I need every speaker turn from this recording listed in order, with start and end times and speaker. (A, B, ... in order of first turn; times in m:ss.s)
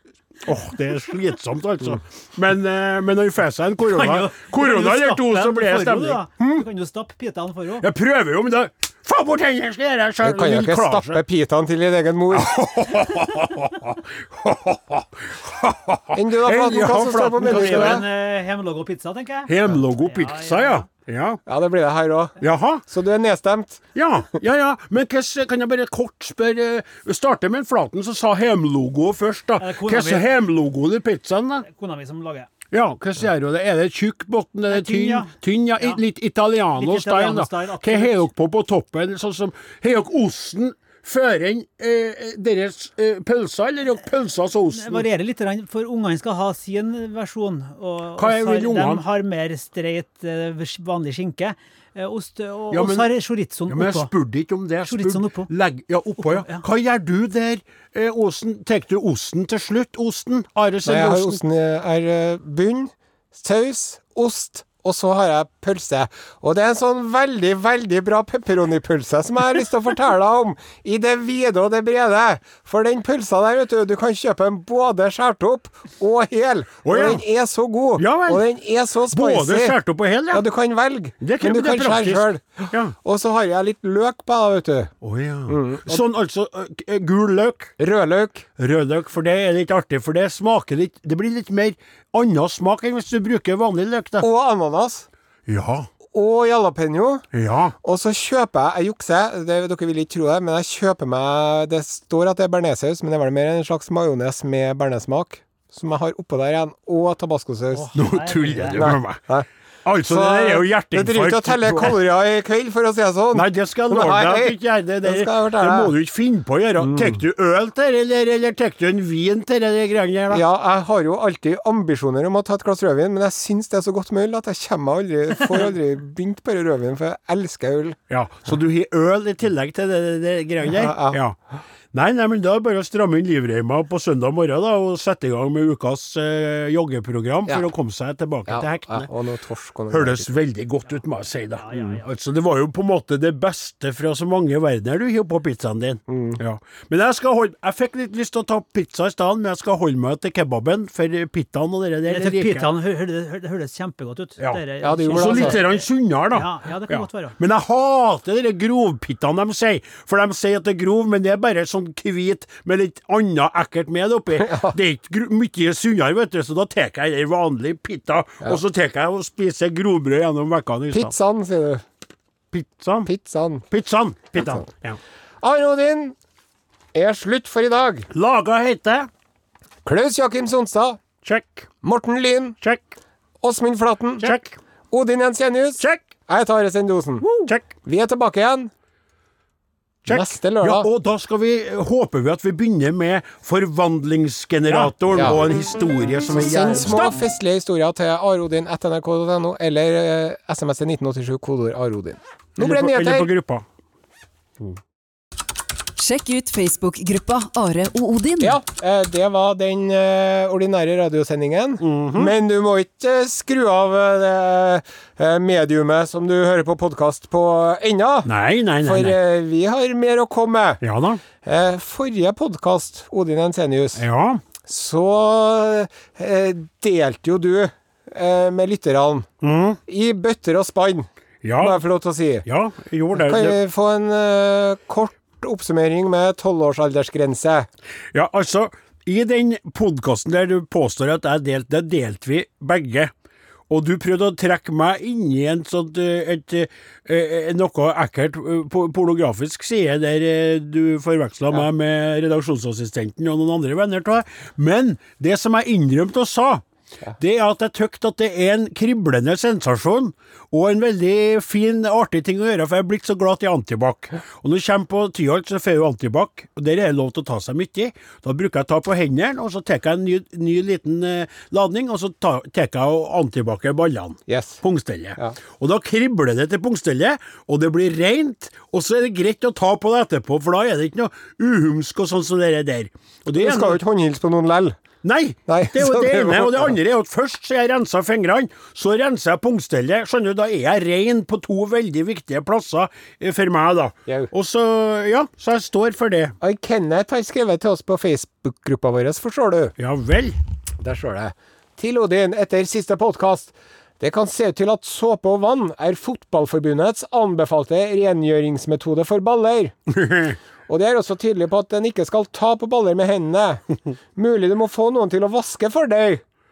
0:00.4-0:06.2 A
0:03.9-0:07.8 B
0:07.8-0:11.2 A
0:10.2-0:12.5 C
0:12.3-0:18.0 A
0:16.1-0:18.0 C
0:17.4-0:20.9 B
0:19.5-0:21.4 A
0:21.5-0:22.4 C
0:22.4-0:22.8 A
0:22.9-0:23.8 C
0:24.0-0:31.7 A
0:29.6-0:30.3 B
0:31.6-0:32.5 B
0:32.7-0:45.1 A
0:34.7-0:36.0 B
0:36.8-0:38.3 B
0:44.8-0:54.1 B
0:48.2-0:49.0 A
0:52.7-0:53.1 A
0:53.7-1:01.4 A
0:54.8-0:55.5 B
0:56.3-0:56.6 B
1:00.9-1:19.8 C
1:16.8-1:17.2 A
1:18.0-1:18.5 A
1:19.1-1:20.4 A
1:20.3-1:24.9 C
1:21.2-1:23.0 A
1:25.0-1:27.8 A
1:25.5-1:26.0 C
1:27.8-1:28.5 C
1:28.6-1:34.3 A
1:34.2-1:35.1 C
1:35.5-1:35.9 A
1:36.1-1:37.2 C
1:37.3-1:37.7 A
1:37.8-1:47.9 C
1:47.7-1:48.9 B
1:48.0-1:49.2 A
1:48.7-1:49.5 C
1:49.8-1:52.0 A
1:50.0-1:55.9 C
1:53.3-2:00.4 A
1:56.8-1:57.2 C
2:00.3-2:08.0 C
2:08.1-2:11.4 A
2:10.6-2:11.2 C
2:11.9-2:19.1 A
2:18.5-2:20.3 C
2:19.9-2:32.7 A
2:21.6-2:22.0 B
2:26.1-2:26.4 C
2:32.1-2:37.4 B
2:34.4-2:51.1 A
2:34.8-2:35.6 C
2:44.4-2:44.8 C
2:50.9-2:51.8 C
2:52.5-2:53.1 A
2:53.0-2:53.7 C
2:53.7-2:55.0 A
2:54.4-2:54.6 C
2:55.4-2:56.2 C
2:56.9-2:58.1 C
2:58.1-2:59.1 A
2:59.8-3:01.0 C
3:01.2-3:01.7 A
3:01.8-3:02.6 C
3:03.4-3:04.4 C
3:04.2-3:04.6 A
3:04.9-3:08.7 C
3:05.8-3:06.1 A
3:07.2-3:07.7 A
3:10.0-3:17.2 A
3:10.1-3:10.9 C
3:14.7-3:15.4 C
3:16.4-3:23.3 C
3:22.6-3:23.6 A
3:26.0-3:28.6 D
3:28.4-3:38.3 C
3:31.8-3:32.3 A
3:38.2-3:39.2 A
3:38.8-3:40.8 C
3:40.8-3:41.2 A
3:41.4-3:44.0 C
3:44.0-3:44.4 A
3:44.6-3:49.3 C
3:49.4-3:49.8 A
3:49.9-3:52.5 C
3:51.4-3:51.8 A
3:52.5-3:53.6 A
3:53.1-3:57.7 C
3:58.1-4:03.1 A
4:03.7-4:16.6 A
4:17.2-4:43.8 A
4:34.3-4:34.6 C
4:43.3-4:44.8 C
4:45.0-4:56.4 A
4:45.5-4:46.8 C
4:56.4-4:59.7 C
4:59.8-5:00.4 A
5:00.8-5:09.8 C
5:09.9-5:10.4 A
5:10.7-5:13.6 C
5:14.2-5:16.2 C